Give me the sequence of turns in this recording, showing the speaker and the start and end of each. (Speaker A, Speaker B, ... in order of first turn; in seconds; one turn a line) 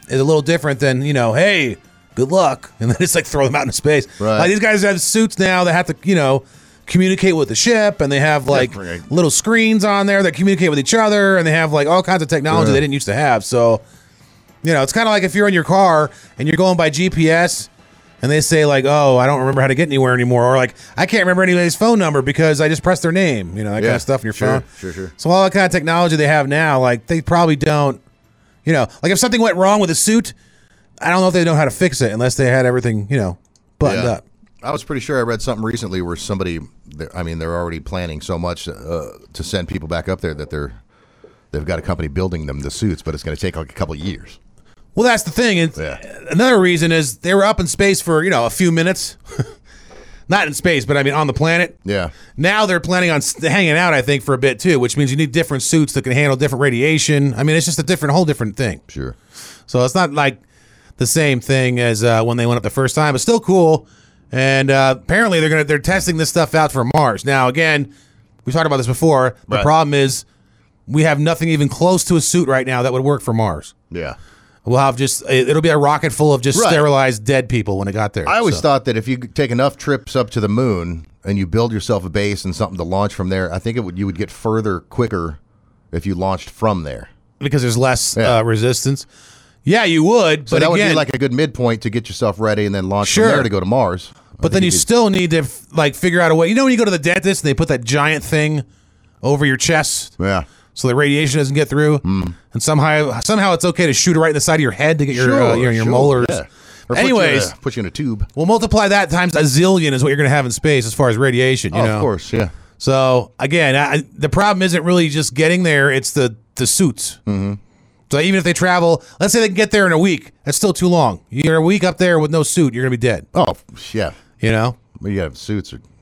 Speaker A: 0.1-13.8
Speaker B: 4.2-4.5
Speaker B: 8.5-9.1
Speaker B: 12.5-12.8
Speaker A: 14.6-17.7
Speaker A: 18.2-24.6
Speaker B: 23.8-25.1
Speaker A: 25.2-28.0
Speaker A: 28.6-30.3
Speaker A: 31.0-34.2
Speaker B: 33.8-40.8
Speaker B: 41.5-44.4
Speaker A: 45.0-49.5
Speaker B: 45.8-46.0
Speaker A: 50.3-51.8
Speaker B: 51.8-52.1
Speaker A: 52.4-58.8
Speaker B: 58.9-59.1
Speaker A: 59.7-60.4
Speaker A: 61.0-67.9
Speaker A: 68.4-70.2
Speaker A: 70.9-73.7
Speaker B: 73.9-74.2
Speaker A: 74.6-78.6
Speaker B: 76.5-76.9
Speaker B: 78.2-85.4
Speaker B: 85.9-87.1
Speaker A: 87.4-89.0
Speaker B: 88.1-88.4
Speaker A: 89.6-91.0
Speaker B: 90.5-94.9
Speaker A: 93.0-93.5
Speaker A: 94.4-98.6
Speaker A: 99.2-100.2
Speaker B: 100.2-100.5
Speaker A: 100.7-106.4
Speaker B: 102.0-102.4
Speaker B: 105.1-108.3
Speaker A: 106.9-107.5
Speaker A: 108.3-112.1
Speaker B: 111.7-112.5
Speaker A: 112.8-117.2
Speaker B: 117.3-117.6
Speaker A: 118.1-123.2
Speaker B: 123.3-124.2
Speaker A: 124.4-124.8
Speaker B: 124.9-125.8